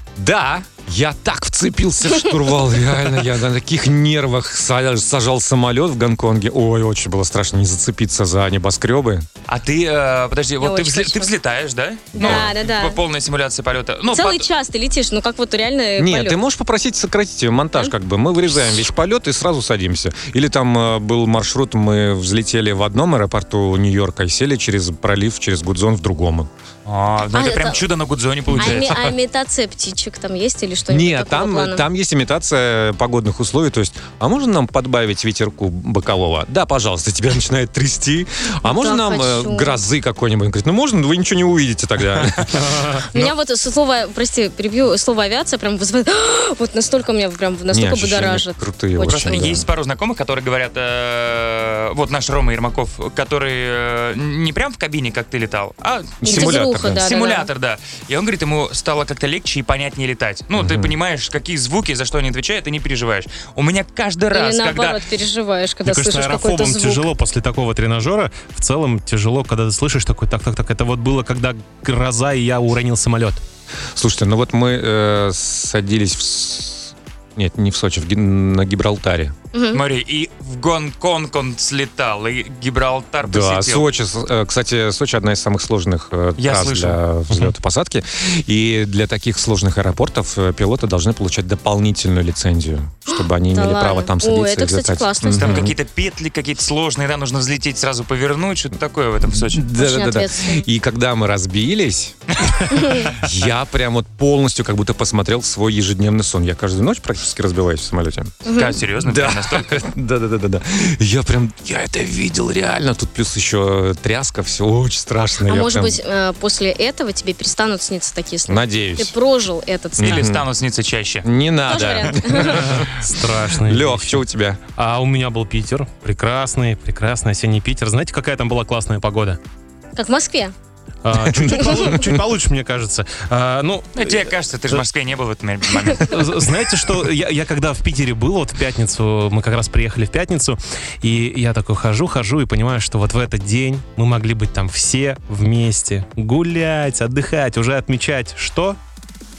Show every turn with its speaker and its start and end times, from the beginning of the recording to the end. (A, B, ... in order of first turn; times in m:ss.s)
0:00.2-0:09.3 A
0:09.5-0:14.5 B
0:10.6-0:11.3 C
0:12.2-0:12.5 A
0:12.2-0:13.0 C
0:14.1-0:16.4 C
0:16.0-0:26.5 A
0:26.9-0:29.1 B
0:27.3-0:27.8 C
0:28.5-0:31.8 C
0:28.6-0:29.1 A
0:30.9-0:43.0 A
0:38.6-0:39.8 C
0:42.6-0:43.0 D
0:43.1-0:49.6 C
0:47.7-0:49.7 A
0:49.1-1:05.0 B
0:56.2-0:57.1 A
0:56.2-0:57.5 C
1:00.6-1:01.0 A
1:04.3-1:07.1 C
1:05.8-1:13.4 D
1:14.0-1:19.3 A
1:19.5-1:19.8 C
1:19.7-1:23.9 B
1:23.2-1:35.8 A
1:26.4-1:27.0 B
1:33.5-1:35.7 C
1:35.4-1:39.7 B
1:39.3-1:42.2 A
1:39.7-1:40.7 C
1:42.4-1:43.2 B
1:42.7-1:43.1 C
1:43.0-1:56.0 A
1:48.4-1:48.8 C
1:48.5-1:49.8 B
1:55.5-2:00.4 C
1:58.5-1:59.1 A
2:00.0-2:00.5 A
2:00.0-2:01.3 B
2:01.2-2:04.6 A
2:01.7-2:02.7 C
2:02.4-2:04.2 D
2:04.7-2:09.4 D
2:10.0-2:10.5 C
2:11.0-2:14.8 D
2:11.2-2:12.2 A
2:14.0-2:16.5 B
2:16.0-2:28.8 D